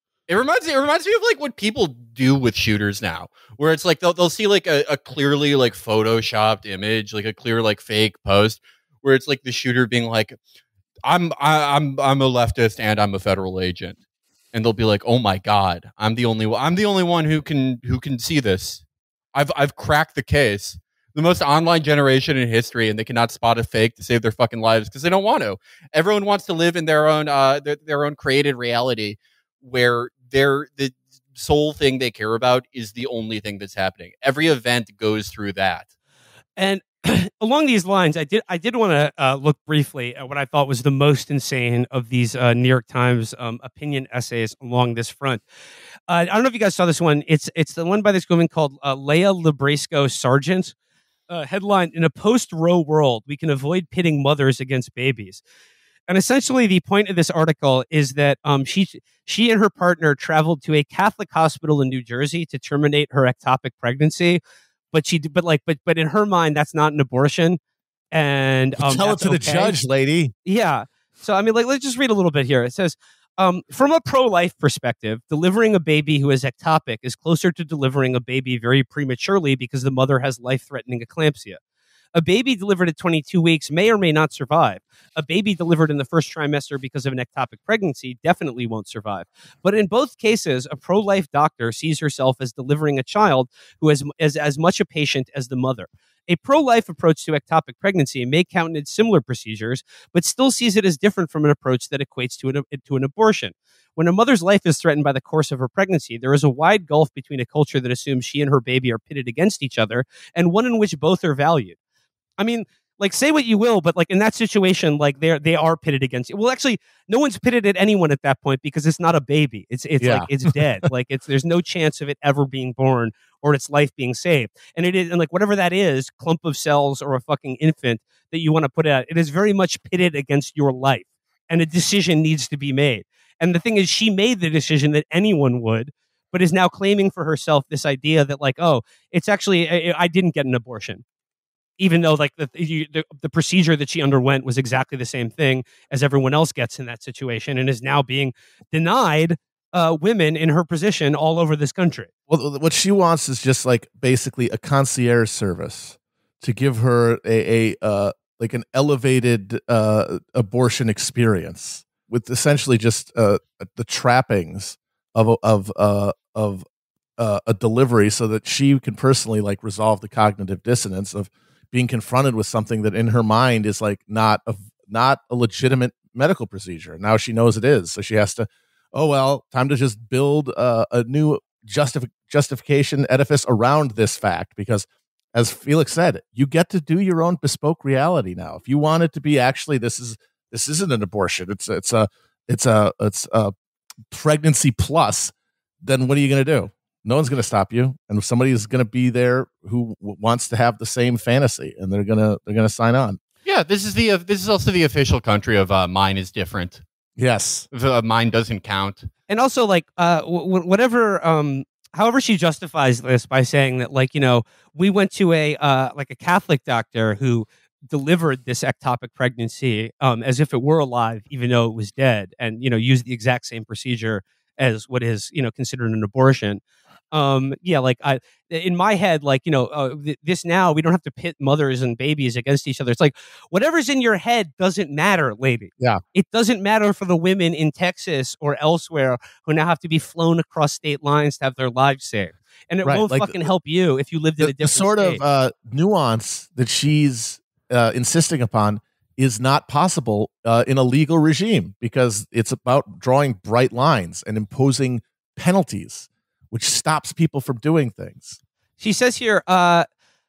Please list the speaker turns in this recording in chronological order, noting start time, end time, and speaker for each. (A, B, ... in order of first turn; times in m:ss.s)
0:00.3-0:10.4 A
0:11.0-0:14.0 A
0:14.5-0:18.8 A
0:19.3-0:35.9 A
0:36.6-0:45.4 B
0:46.1-0:50.7 B
0:51.3-0:55.4 B
0:56.1-1:04.4 B
1:04.9-1:07.6 B
1:08.1-1:09.8 B
1:08.8-1:10.3 C
1:10.4-1:21.6 B
1:22.2-1:51.8 B
1:52.4-2:21.0 B
2:00.0-2:00.8 C
2:21.8-2:32.1 B
2:32.3-2:46.6 C
2:47.2-3:13.5 C
3:14.1-3:23.2 C
3:23.4-3:26.8 A
3:27.2-3:27.7 C
3:27.7-3:29.1 A
3:29.3-4:05.2 B
4:02.8-4:03.4 C
4:04.4-4:18.4 C
4:18.8-4:19.9 B